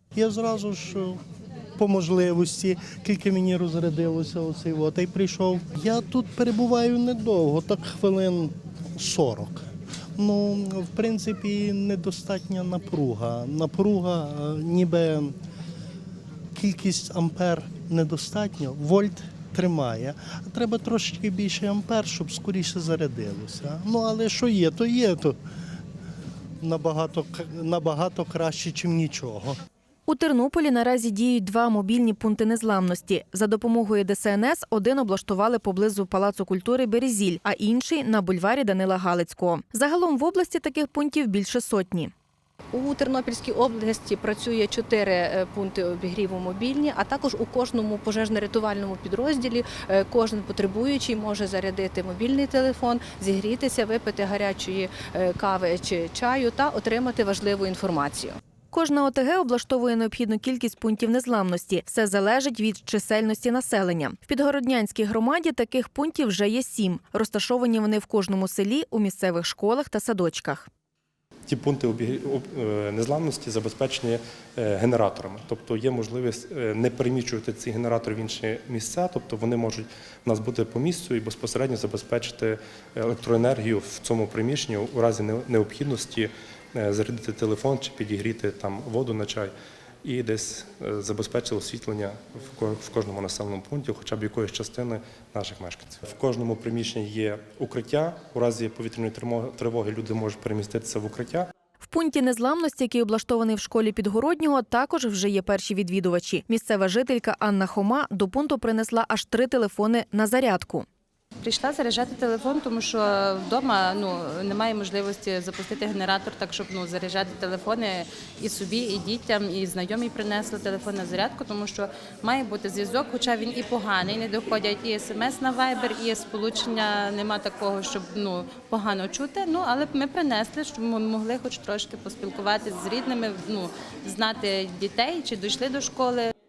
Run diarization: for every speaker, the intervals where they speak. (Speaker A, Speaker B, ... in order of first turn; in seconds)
Speaker A: 0.1-1.2, 1.8-9.7, 10.2-15.3, 16.5-25.4, 26.6-29.6
Speaker B: 30.1-42.1, 58.7-70.7, 101.8-110.8
Speaker C: 42.7-58.4
Speaker D: 71.5-89.5, 90.0-101.5
Speaker E: 111.4-136.3